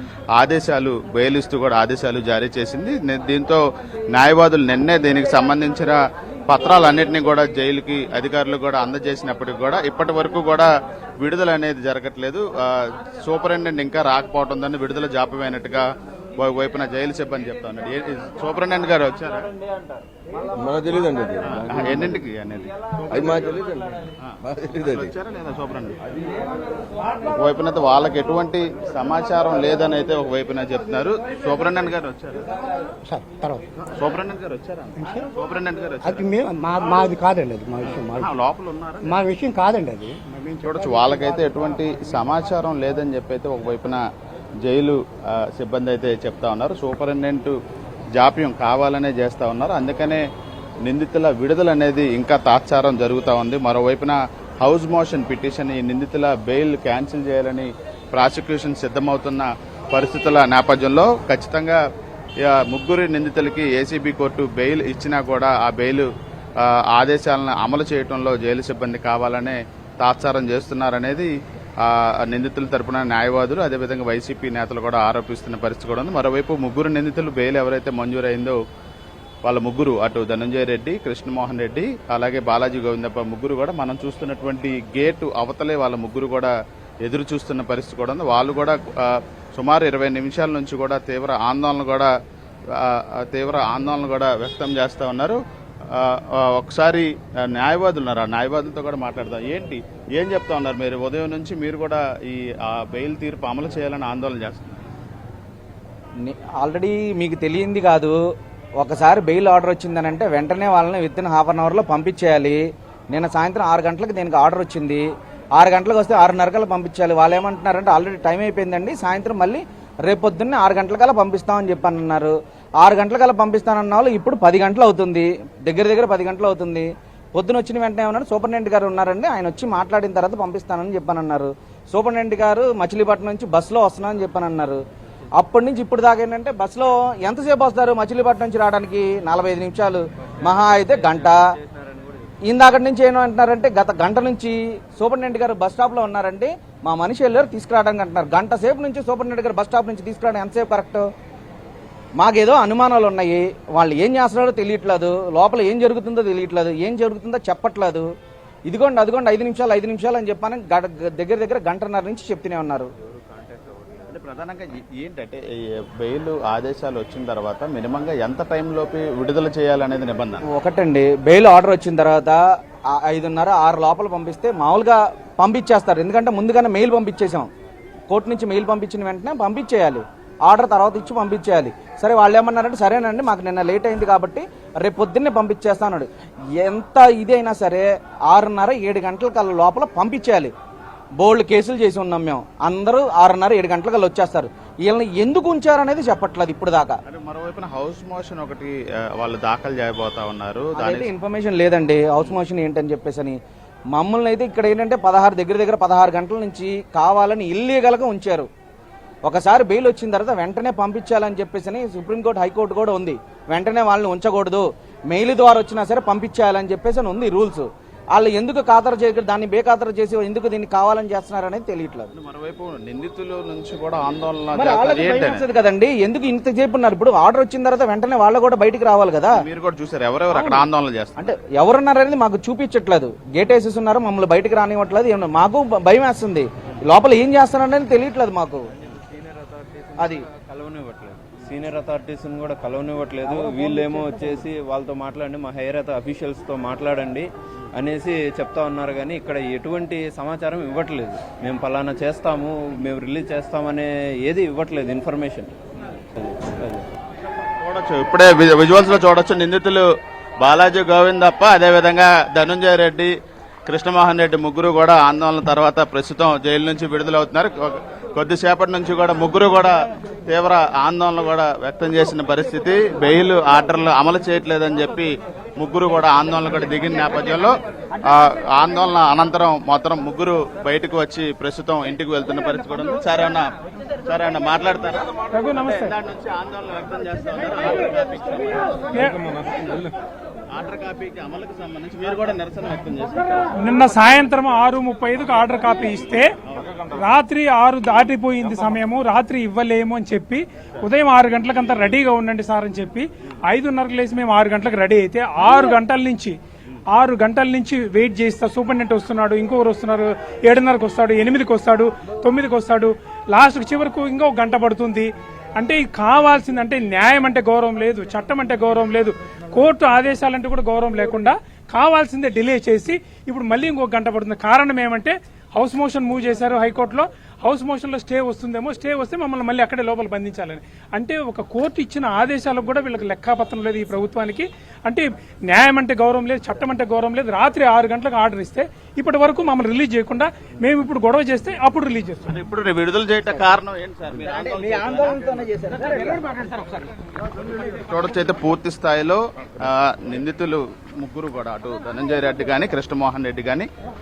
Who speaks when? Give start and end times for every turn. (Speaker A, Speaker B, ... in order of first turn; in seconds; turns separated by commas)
Speaker A: 0.4-15.9, Speaker A: 16.4-19.5, Speaker B: 20.6-22.2, Speaker A: 21.5-22.7, Speaker B: 23.1-25.1, Speaker A: 24.2-26.0, Speaker A: 27.3-32.4, Speaker C: 33.0-33.7, Speaker A: 34.0-36.3, Speaker C: 36.0-38.3, Speaker A: 37.8-39.2, Speaker C: 39.0-40.8, Speaker A: 40.6-44.0, Speaker A: 44.6-47.6, Speaker A: 48.2-50.2, Speaker A: 50.9-61.8, Speaker A: 62.5-66.1, Speaker A: 66.6-78.6, Speaker A: 79.5-86.5, Speaker A: 87.0-92.1, Speaker A: 92.7-104.8, Speaker D: 106.2-108.2, Speaker D: 108.8-115.1, Speaker D: 115.6-134.8, Speaker D: 135.4-141.6, Speaker E: 140.4-142.3, Speaker D: 142.5-151.1, Speaker D: 152.2-158.1, Speaker D: 158.7-162.9, Speaker A: 164.1-170.5, Speaker D: 170.5-172.4, Speaker D: 173.0-177.5, Speaker D: 178.1-190.5, Speaker D: 191.2-197.0, Speaker A: 197.1-201.1, Speaker D: 200.8-203.4, Speaker D: 203.9-208.5, Speaker D: 209.3-222.1, Speaker A: 222.1-225.4, Speaker D: 224.5-229.4, Speaker A: 229.3-231.3, Speaker D: 230.3-230.7, Speaker D: 231.2-238.7, Speaker E: 239.1-239.9, Speaker D: 240.0-240.3, Speaker E: 240.5-255.6, Speaker E: 256.2-256.9, Speaker A: 257.6-259.9, Speaker A: 260.4-263.1, Speaker A: 263.7-269.8, Speaker A: 270.3-277.5, Speaker A: 278.1-283.5, Speaker A: 284.1-285.1, Speaker F: 285.3-285.9, Speaker A: 285.6-288.8, Speaker F: 288.9-289.2, Speaker A: 290.5-293.4, Speaker F: 293.6-296.3, Speaker F: 297.0-306.4, Speaker F: 306.9-342.3, Speaker A: 342.3-345.4, Speaker D: 345.2-346.3, Speaker A: 347.7-353.7